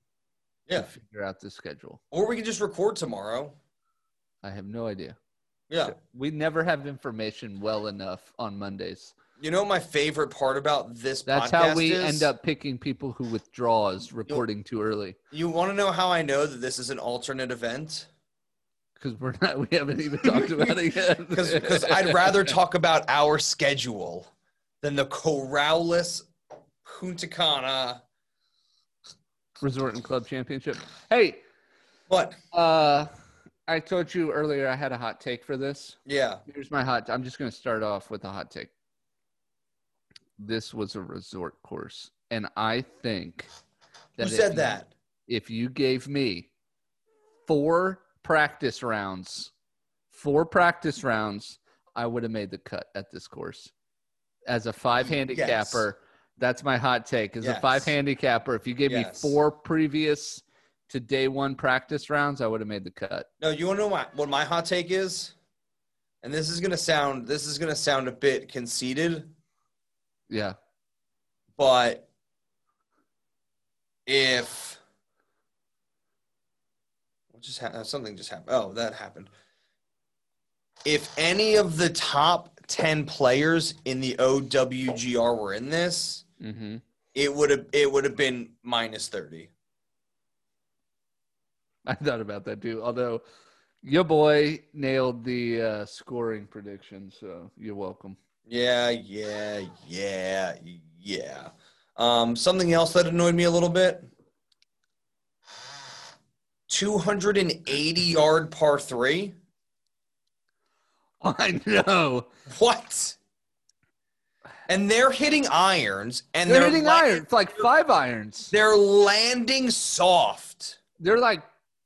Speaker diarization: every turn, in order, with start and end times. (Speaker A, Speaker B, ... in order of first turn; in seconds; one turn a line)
Speaker A: 0.7-2.0
Speaker B: 2.1-3.6
Speaker A: 4.4-5.2
Speaker B: 5.7-6.0
Speaker A: 5.9-9.2
Speaker B: 9.4-12.3
Speaker A: 11.3-15.2
Speaker B: 15.3-18.1
Speaker A: 19.0-22.6
Speaker B: 20.3-20.7
Speaker B: 21.3-24.3
Speaker B: 24.8-26.3
Speaker B: 26.8-28.0
Speaker A: 29.6-31.4
Speaker B: 32.1-32.4
Speaker A: 32.5-33.1
Speaker A: 33.7-38.7
Speaker B: 36.1-36.4
Speaker A: 40.4-43.5
Speaker B: 44.2-44.9
Speaker A: 44.2-46.5
Speaker A: 47.5-49.5
Speaker A: 50.1-53.7
Speaker A: 54.5-63.3
Speaker B: 55.0-55.9
Speaker B: 57.4-57.9
Speaker B: 58.9-59.4
Speaker B: 63.4-65.3
Speaker B: 66.2-69.3
Speaker A: 70.3-70.6
Speaker B: 71.6-72.1
Speaker B: 74.1-74.8
Speaker B: 77.3-79.3
Speaker B: 80.8-86.2
Speaker A: 86.4-86.8
Speaker B: 87.2-89.5
Speaker A: 91.9-93.2
Speaker A: 93.8-98.2
Speaker B: 98.5-104.1
Speaker B: 106.7-109.4
Speaker A: 111.2-112.3
Speaker B: 112.5-113.2
Speaker B: 114.7-117.3
Speaker A: 116.5-118.5
Speaker B: 118.5-120.8
Speaker A: 121.0-121.5